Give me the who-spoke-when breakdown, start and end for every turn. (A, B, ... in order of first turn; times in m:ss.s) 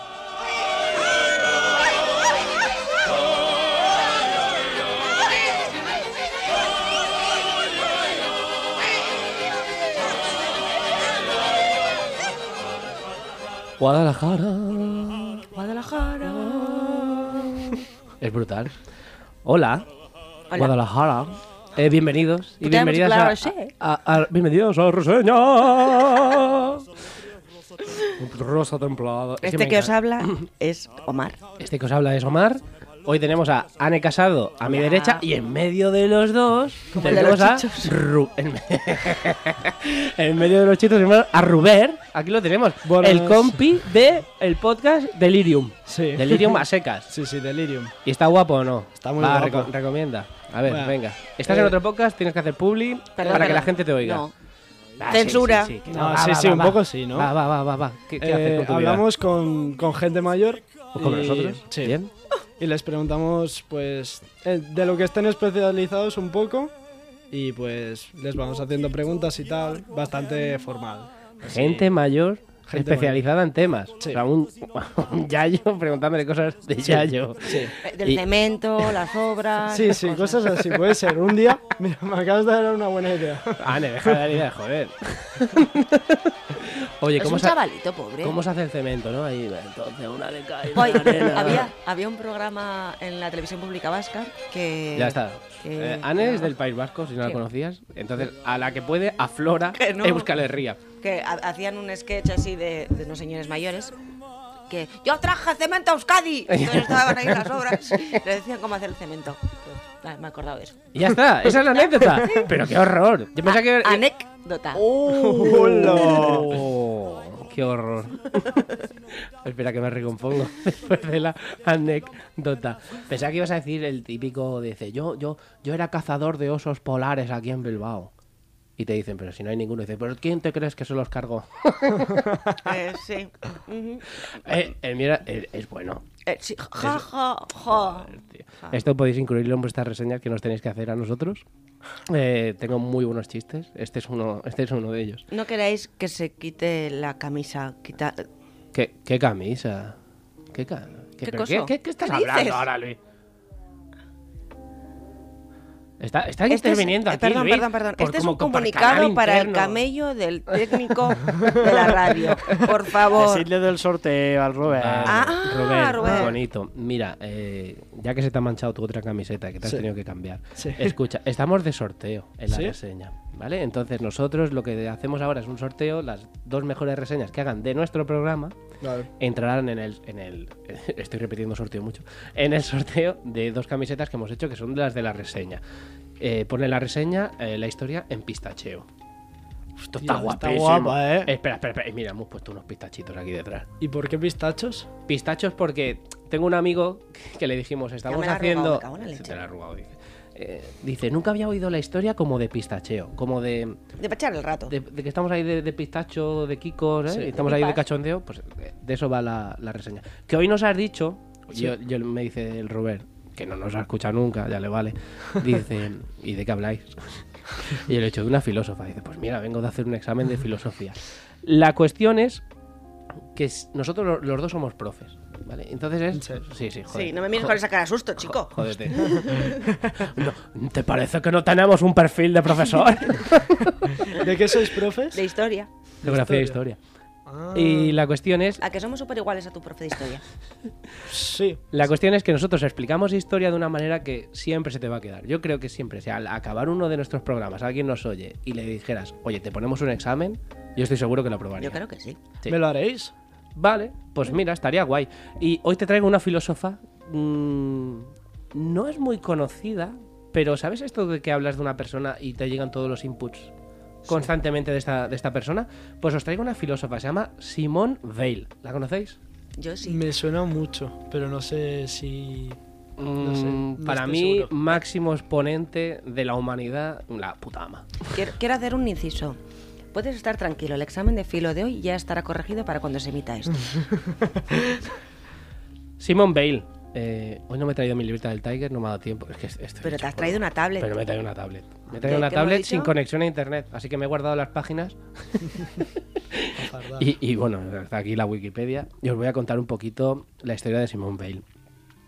0:13.8-0:15.5 A
0:15.5-0:17.5 B
0:16.2-0:18.7 A
0:19.4-0:19.9 A
0:20.6-0:26.9 A
0:22.6-0:23.7 B
0:28.2-0:30.4 A
0:29.4-0:31.4 B
0:31.6-0:47.1 A
0:34.7-0:35.2 B
0:37.0-0:38.0 B
0:42.8-0:43.7 C
0:45.9-0:48.0 C
0:48.0-0:54.3 A
0:49.0-0:49.7 C
0:50.6-0:51.8 C
0:53.2-0:54.3 B
0:53.3-0:53.5 C
0:55.0-0:59.0 A
0:55.1-0:55.8 B
0:55.9-0:57.3 C
0:58.2-1:02.0 C
1:01.0-1:02.1 A
1:02.6-1:06.7 C
1:07.3-1:11.9 C
1:11.4-1:18.3 A
1:12.7-1:13.2 C
1:16.8-1:17.8 C
1:17.8-1:20.5 B
1:19.7-1:24.3 C
1:23.6-1:27.6 A
1:27.2-1:28.4 B
1:28.2-1:31.7 A
1:30.7-1:36.5 B
1:35.0-1:40.8 A
1:39.8-1:40.3 B
1:41.0-1:44.0 B
1:44.7-1:50.9 B
1:46.5-1:48.2 A
1:50.9-1:54.1 A
1:51.4-1:52.5 B
1:53.5-1:54.8 B
1:54.8-1:58.7 A
1:55.0-1:56.6 C
1:55.9-1:56.4 B
1:59.4-2:08.1 A
2:08.8-2:12.4 A
2:12.6-2:14.3 B
2:14.3-2:16.0 A
2:16.3-2:18.8 B
2:16.8-2:17.1 A
2:17.6-2:21.4 A
2:22.1-2:25.2 A
2:25.3-2:28.3 B
2:28.7-2:30.0 A
2:30.5-2:33.0 A
2:31.2-2:32.7 B
2:36.0-2:39.8 A
2:36.5-2:43.5 B
2:43.1-2:45.4 D
2:44.7-2:58.6 A
2:45.0-2:46.3 B
2:46.0-2:46.3 C
2:50.6-2:51.0 C
2:52.5-2:52.8 C
2:58.8-2:59.1 C
2:59.2-3:05.6 A
3:06.2-3:08.9 A
3:09.9-3:13.7 A
3:10.0-3:11.2 C
3:10.3-3:11.0 D
3:13.8-3:14.9 C
3:15.1-3:23.8 A
3:18.1-3:19.4 B
3:24.0-3:24.8 B
3:24.7-3:42.4 A
3:27.3-3:27.8 B
3:43.3-3:47.6 A
3:46.1-3:46.5 C
3:46.9-3:49.7 B
3:48.2-3:54.0 A
3:54.0-3:55.2 C
3:55.1-3:55.7 B
3:56.0-3:56.6 C
3:56.0-3:56.8 A
3:57.3-3:58.0 C
3:57.5-3:58.6 A
3:58.6-4:00.2 B
4:01.0-4:01.7 C
4:01.7-4:11.8 A
4:11.6-4:12.2 B
4:12.5-4:13.1 C
4:13.6-4:23.5 A
4:24.1-4:29.2 A
4:29.6-4:30.0 B
4:29.8-4:32.6 C
4:33.0-4:37.9 A
4:33.2-4:34.8 C
4:38.1-4:39.4 B
4:39.9-4:43.8 B
4:46.0-5:01.4 A
4:49.8-4:51.0 B
4:52.0-4:52.9 B
4:56.6-4:57.1 C